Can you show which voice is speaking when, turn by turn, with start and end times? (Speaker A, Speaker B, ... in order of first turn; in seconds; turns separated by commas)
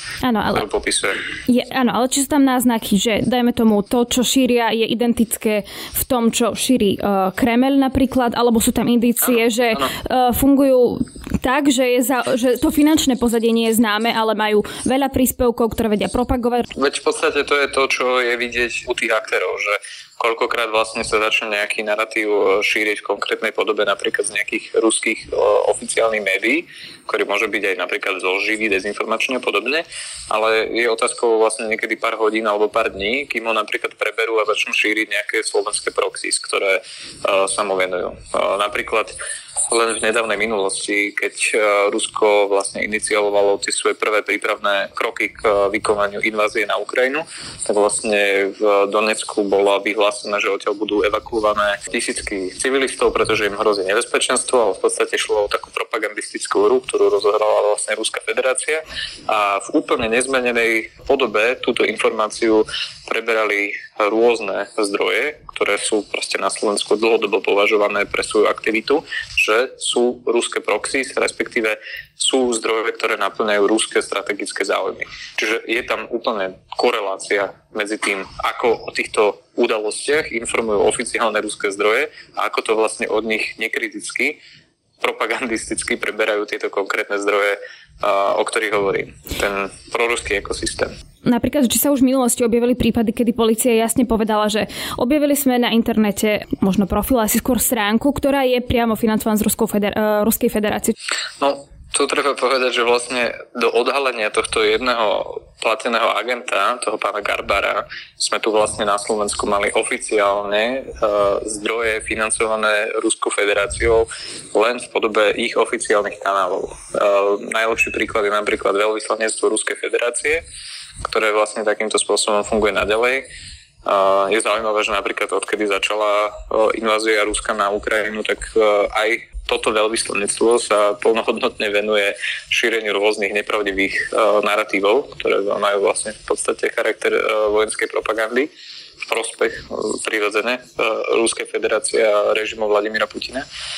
Speaker A: 0.2-0.7, Speaker B: 0.5-1.2, Speaker A: 1.5-16.7, Speaker B: 16.7-39.1, Speaker B: 39.7-84.4, Speaker B: 85.0-90.9, Speaker A: 91.2-100.9, Speaker B: 101.4-120.4, Speaker B: 121.0-123.3, Speaker B: 123.8-138.5, Speaker B: 139.1-143.4